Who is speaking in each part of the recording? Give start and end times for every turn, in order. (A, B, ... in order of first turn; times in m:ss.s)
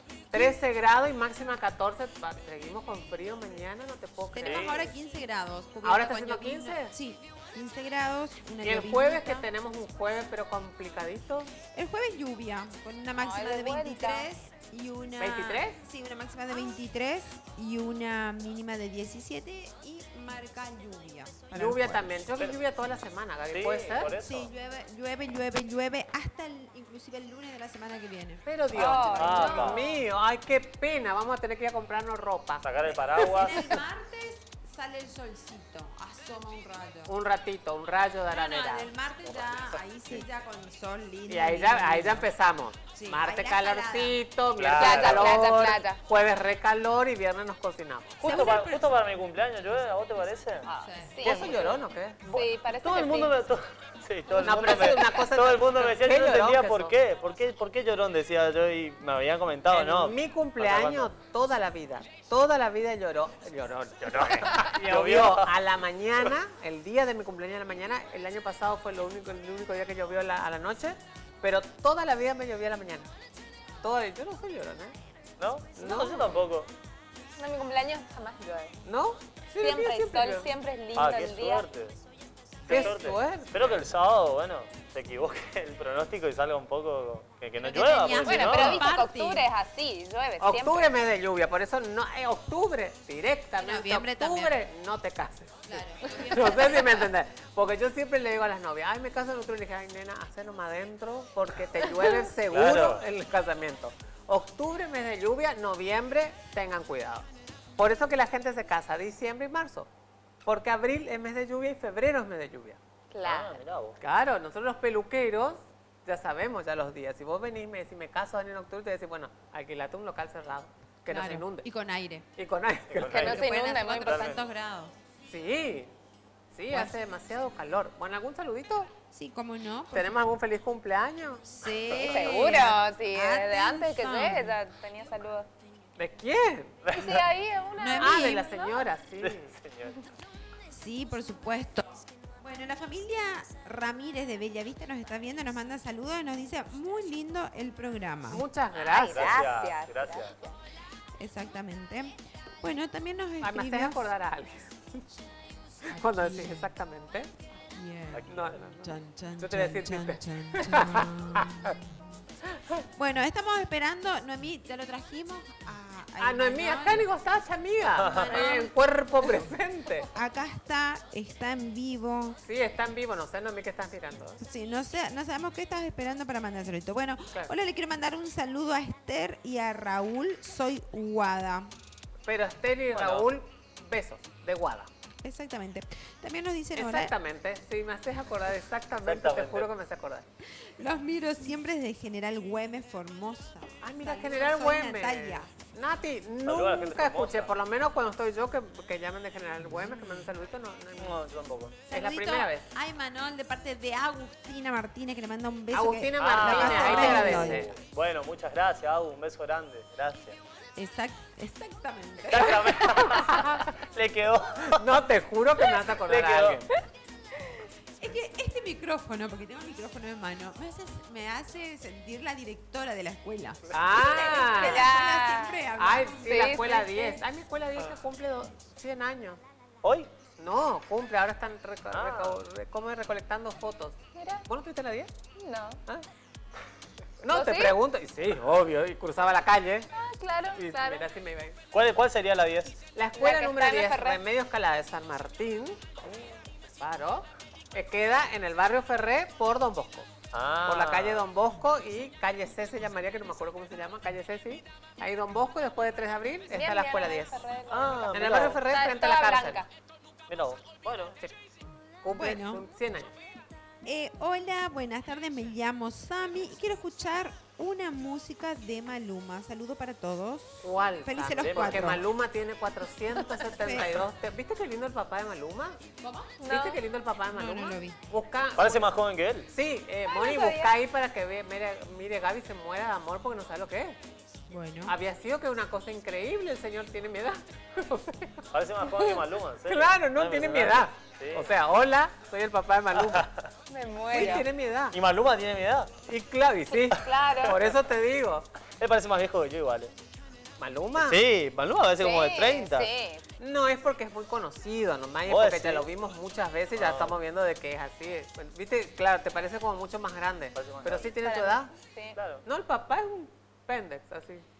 0:00.3-0:04.9 A
0:04.4-0:09.5 B
0:04.4-0:04.8 C
0:05.8-0:06.9 A
0:08.6-0:11.5 A
0:11.7-0:22.1 B
0:13.2-0:14.3 D
0:15.2-0:15.8 A
0:21.5-0:24.2 A
0:23.5-0:24.5 C
0:24.2-0:28.4 B
0:28.4-0:33.8 A
0:28.7-0:29.7 D
0:29.1-0:30.0 B
0:29.2-0:29.8 C
0:32.6-0:33.7 C
0:33.2-0:37.1 B
0:37.1-0:38.9 A
0:38.3-0:42.3 B
0:39.6-0:40.2 A
0:41.3-0:48.4 A
0:42.9-0:44.2 B
0:44.6-0:45.4 C
0:44.8-0:46.0 D
0:48.2-0:50.6 C
0:48.2-0:48.9 B
0:50.6-0:51.7 D
0:50.8-0:51.8 B
0:51.2-0:52.2 A
0:52.2-1:01.1 C
0:52.3-0:53.4 D
0:54.3-0:56.9 A
0:59.7-1:13.1 A
1:04.0-1:05.5 C
1:13.8-1:14.9 A
1:15.4-1:16.7 C
1:15.8-1:16.4 A
1:17.4-1:18.7 D
1:18.8-1:20.5 A
1:19.6-1:21.6 D
1:21.0-1:22.0 C
1:22.7-1:23.9 A
1:22.7-1:28.8 C
1:27.6-1:29.4 B
1:28.2-1:30.9 D
1:30.4-1:49.9 A
1:33.6-1:34.5 B
1:35.7-1:37.1 B
1:42.5-1:43.0 C
1:50.4-1:52.8 A
1:53.1-1:53.6 D
1:53.2-1:54.0 C
1:54.0-2:01.7 A
2:01.1-2:02.3 B
2:02.4-2:03.3 A
2:02.9-2:03.4 C
2:03.1-2:04.3 D
2:03.1-2:04.9 B
2:04.0-2:04.4 C
2:05.3-2:05.9 A
2:06.5-2:08.9 A
2:09.1-2:10.2 B
2:09.9-2:11.4 A
2:11.4-2:14.6 B
2:11.9-2:15.5 D
2:16.0-2:16.8 A
2:16.9-2:18.6 D
2:17.8-2:18.8 B
2:18.0-2:19.5 A
2:19.2-2:20.0 C
2:20.7-2:21.8 B
2:22.4-2:28.5 B
2:28.3-2:29.3 A
2:28.8-2:30.6 D
2:29.1-2:30.3 C
2:31.2-2:34.1 B
2:33.4-2:35.0 A
2:35.8-2:36.7 B
2:35.8-2:37.3 A
2:37.7-2:42.3 B
2:38.1-2:38.4 C
2:38.3-2:41.7 A
2:42.5-2:42.8 A
2:42.9-2:47.1 B
2:46.2-2:50.1 A
2:48.0-2:48.6 C
2:48.0-2:48.7 B
2:50.1-2:52.4 B
2:52.4-2:54.4 A
2:54.4-3:01.7 B
3:02.3-3:04.9 A
3:02.9-3:03.3 C
3:05.2-3:07.1 B
3:06.7-3:10.2 A
3:09.0-3:09.7 C
3:10.5-3:15.5 B
3:13.8-3:21.2 A
3:16.4-3:17.5 C
3:21.0-3:21.8 C
3:21.9-3:22.6 A
3:21.9-3:27.7 B
3:25.7-3:27.7 A
3:26.2-3:30.4 C
3:30.8-3:33.2 B
3:32.3-3:34.9 C
3:32.4-3:33.6 A
3:34.6-3:36.7 A
3:36.0-3:36.6 C
3:38.0-3:46.7 B
3:43.7-3:44.9 A
3:44.4-3:45.6 D
3:45.8-3:49.4 A
3:46.2-3:47.2 D
3:49.8-3:50.1 C
3:50.4-3:55.1 A
3:51.9-3:52.4 C
3:54.1-3:54.4 D
3:55.4-3:55.8 D
3:57.2-3:59.9 A
3:57.3-3:57.8 D
3:59.9-4:01.0 D
4:00.6-4:01.6 A
4:01.7-4:02.8 C
4:02.9-4:05.9 A
4:03.2-4:04.2 D
4:06.0-4:06.3 C
4:06.8-4:10.1 A
4:10.3-4:11.2 C
4:10.6-4:17.4 A
4:16.5-4:19.7 D
4:17.7-4:18.6 C
4:18.1-4:19.6 A
4:20.3-4:21.2 C
4:22.0-4:23.1 A
4:22.1-4:22.6 B
4:23.8-4:32.0 B
4:30.6-4:35.8 A
4:31.4-4:31.9 C
4:33.4-4:34.0 B
4:36.0-4:36.4 B
4:36.4-4:36.8 D
4:36.5-4:38.9 A
4:37.3-4:38.0 B
4:38.6-4:39.5 C
4:39.5-4:44.0 A
4:40.0-4:40.7 D
4:44.5-4:45.0 B
4:44.8-4:53.2 A
4:48.5-4:51.5 C
4:52.9-4:53.5 C
4:53.7-4:54.5 D
4:54.1-4:55.0 A
4:54.1-4:54.4 C
4:54.9-4:55.9 C
4:56.1-4:58.5 A
4:56.7-4:57.6 D
4:56.9-4:57.6 C
4:58.8-4:59.9 C
5:00.6-5:01.2 A
5:01.0-5:02.9 C
5:02.0-5:03.2 D
5:03.4-5:11.7 A
5:05.3-5:05.9 C
5:06.8-5:07.2 C
5:10.5-5:11.2 C
5:11.2-5:12.2 D
5:12.2-5:12.4 C
5:12.4-5:14.4 A